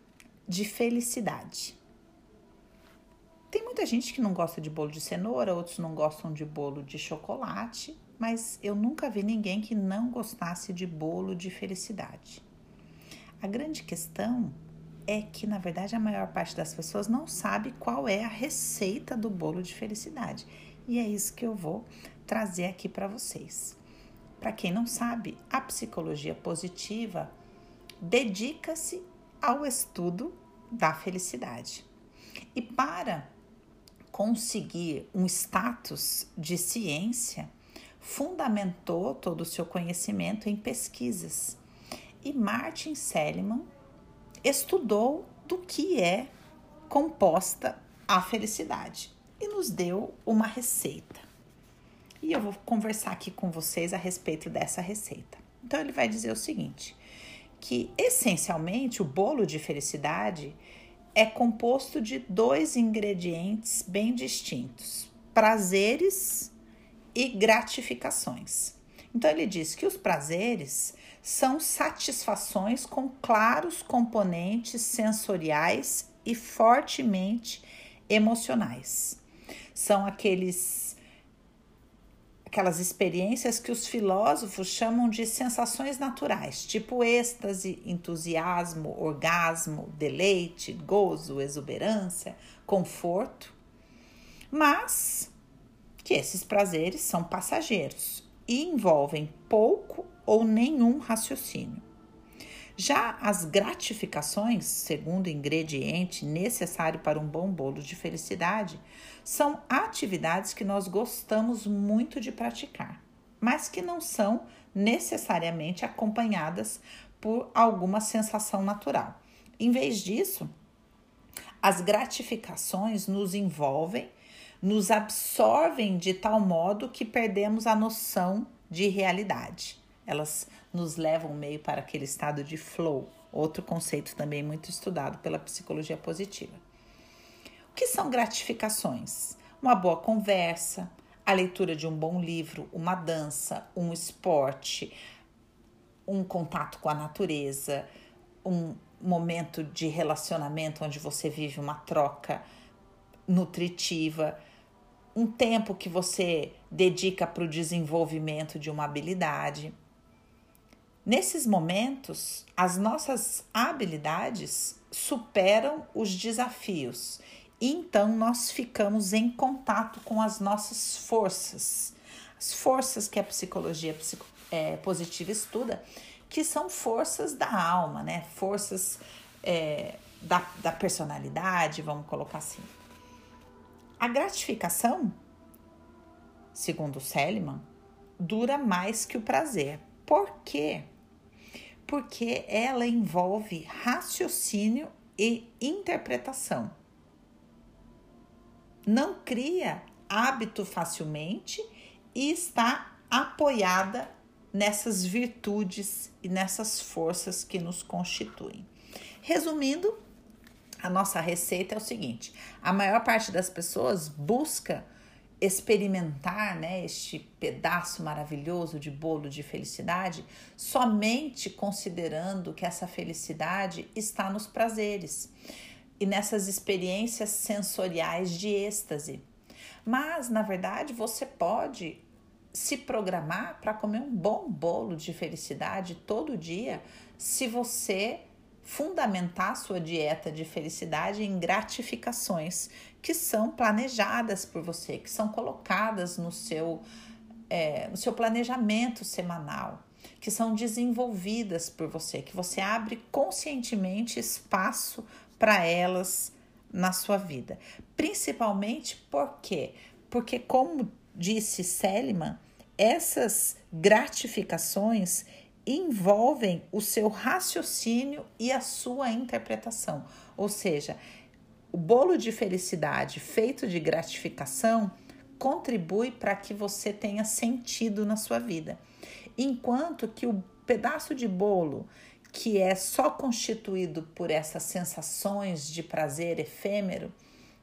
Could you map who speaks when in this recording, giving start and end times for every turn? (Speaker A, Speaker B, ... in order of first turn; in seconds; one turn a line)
Speaker A: 0.5-1.8
Speaker A: 3.5-12.4
Speaker A: 13.4-23.8
Speaker A: 24.4-27.3
Speaker A: 28.0-31.9
Speaker A: 32.5-33.3
Speaker A: 34.1-41.6
Speaker A: 42.2-43.7
Speaker A: 44.4-46.3
Speaker A: 46.9-51.2
Speaker A: 52.2-57.0
Speaker A: 57.6-60.6
Speaker A: 61.1-66.5
Speaker A: 67.2-79.2
Speaker A: 79.7-81.0
Speaker A: 82.5-93.5
Speaker A: 94.5-95.3
Speaker A: 96.0-101.8
Speaker A: 102.8-120.5
Speaker A: 121.6-124.1
Speaker A: 124.6-136.6
Speaker A: 137.7-145.0
Speaker A: 146.1-147.9
Speaker A: 148.4-152.4
Speaker A: 153.3-154.4
Speaker A: 155.2-159.7
Speaker A: 161.1-182.7
Speaker A: 184.0-185.2
Speaker A: 186.5-187.6
Speaker A: 188.2-190.9
Speaker A: 191.9-196.7
Speaker A: 198.9-208.7
Speaker A: 209.2-210.0
Speaker A: 210.8-214.8
Speaker A: 215.4-225.3
Speaker A: 226.0-229.2
Speaker A: 229.8-246.8
Speaker A: 247.5-271.0
Speaker A: 271.7-278.8
Speaker A: 279.4-287.1